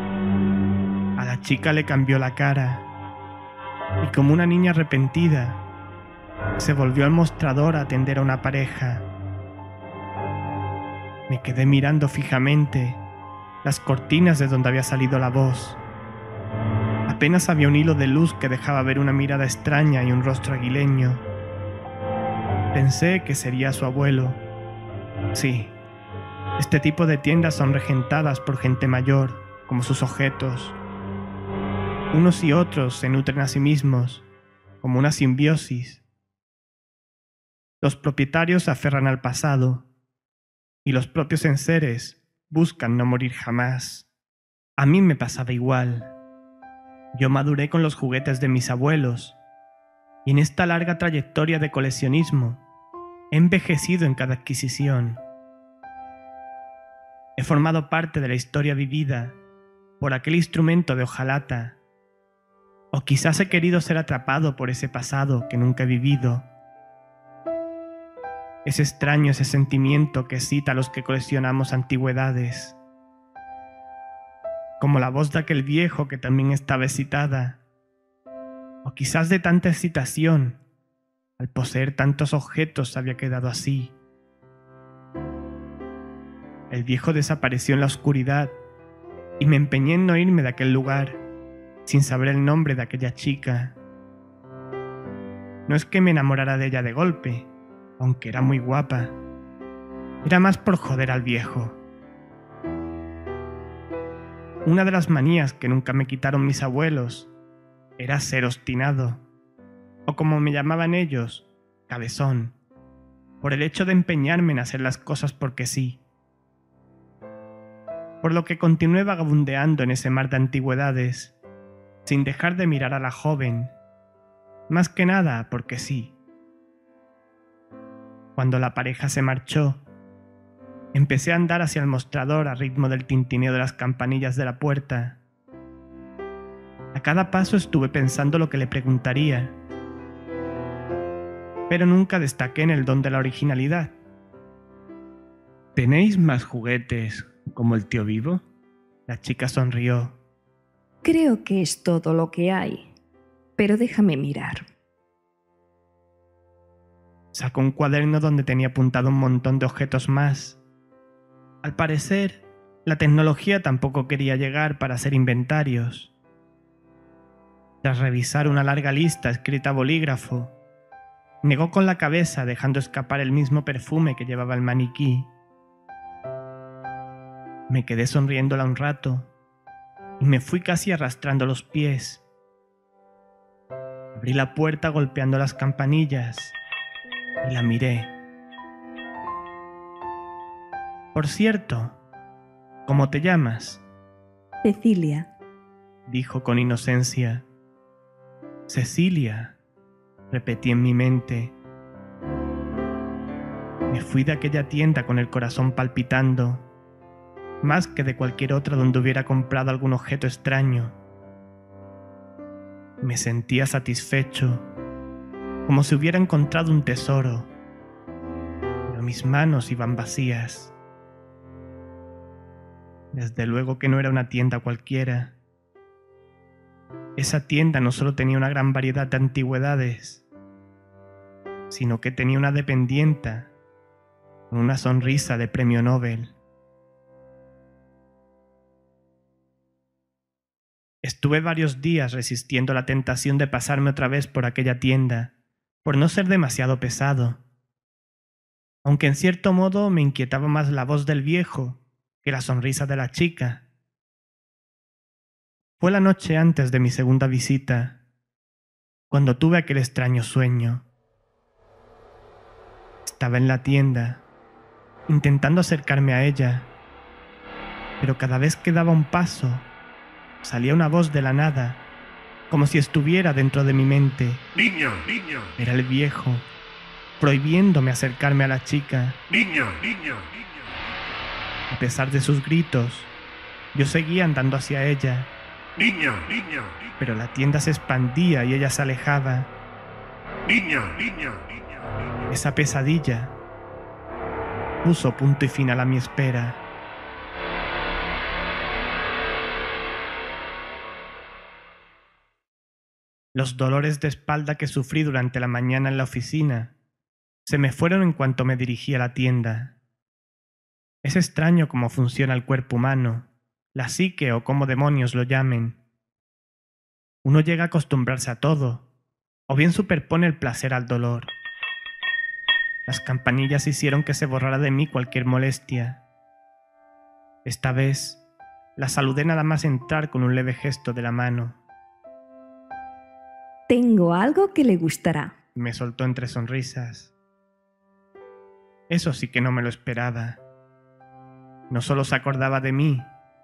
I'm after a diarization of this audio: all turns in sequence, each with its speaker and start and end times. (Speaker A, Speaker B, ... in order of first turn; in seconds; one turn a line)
Speaker A: 1.2-2.9
Speaker A: 4.0-5.6
Speaker A: 6.6-9.1
Speaker A: 11.3-13.0
Speaker A: 13.6-15.8
Speaker A: 17.1-21.2
Speaker A: 22.7-24.4
Speaker A: 25.3-25.7
Speaker A: 26.6-30.8
Speaker A: 32.1-34.2
Speaker A: 34.8-36.0
Speaker A: 37.8-39.9
Speaker A: 40.8-44.1
Speaker A: 44.8-46.1
Speaker A: 47.1-49.4
Speaker A: 50.2-52.6
Speaker A: 53.3-55.2
Speaker A: 57.4-59.4
Speaker A: 60.0-61.8
Speaker A: 62.9-66.5
Speaker A: 68.6-72.8
Speaker A: 74.8-77.6
Speaker A: 78.8-80.6
Speaker A: 81.4-83.9
Speaker A: 86.7-88.5
Speaker A: 89.4-91.2
Speaker A: 91.8-93.8
Speaker A: 95.7-97.5
Speaker A: 98.0-99.2
Speaker A: 100.2-101.8
Speaker A: 104.6-107.3
Speaker A: 108.0-109.2
Speaker A: 110.1-112.5
Speaker A: 113.4-116.0
Speaker A: 118.2-121.3
Speaker A: 122.0-123.7
Speaker A: 124.7-126.1
Speaker A: 128.3-129.8
Speaker A: 130.9-135.2
Speaker A: 136.9-139.5
Speaker A: 141.7-143.9
Speaker A: 145.8-148.4
Speaker A: 149.1-150.2
Speaker B: 151.0-152.9
Speaker B: 153.6-154.6
Speaker A: 157.3-160.6
Speaker A: 161.6-166.1
Speaker A: 167.8-170.5
Speaker A: 171.4-175.3
Speaker A: 177.7-179.3
Speaker A: 180.2-182.2
Speaker A: 184.1-186.6
Speaker A: 187.4-188.1
Speaker A: 191.1-192.0
Speaker A: 192.8-193.8
Speaker B: 194.6-195.3
Speaker A: 196.1-197.4
Speaker A: 198.7-199.6
Speaker A: 200.3-201.5
Speaker A: 203.9-206.6
Speaker A: 207.6-210.9
Speaker A: 213.0-214.7
Speaker A: 215.7-217.5
Speaker A: 218.9-220.7
Speaker A: 223.1-225.3
Speaker A: 227.2-230.2
Speaker A: 231.7-233.5
Speaker A: 234.5-236.3
Speaker A: 241.0-245.3
Speaker A: 245.8-247.4
Speaker A: 248.8-253.6
Speaker A: 255.8-258.0
Speaker A: 259.1-260.8
Speaker A: 263.0-264.2
Speaker A: 265.1-266.7
Speaker A: 268.0-269.7
Speaker A: 270.4-271.8
Speaker A: 272.5-274.4
Speaker C: 274.5-275.5
Speaker A: 275.6-276.5
Speaker A: 277.2-279.2
Speaker C: 279.3-281.1
Speaker A: 281.7-283.1
Speaker A: 283.7-285.3
Speaker C: 285.8-286.8
Speaker A: 287.0-289.5
Speaker C: 290.4-292.0
Speaker A: 292.3-293.4
Speaker A: 294.8-296.6
Speaker A: 303.3-306.7
Speaker A: 307.4-309.7
Speaker A: 311.0-315.8
Speaker A: 317.2-318.8
Speaker A: 319.5-321.3
Speaker A: 322.9-326.0
Speaker A: 327.4-328.2
Speaker A: 328.8-331.6
Speaker B: 333.7-335.3
Speaker A: 335.5-337.1
Speaker A: 338.9-340.4
Speaker A: 341.7-343.1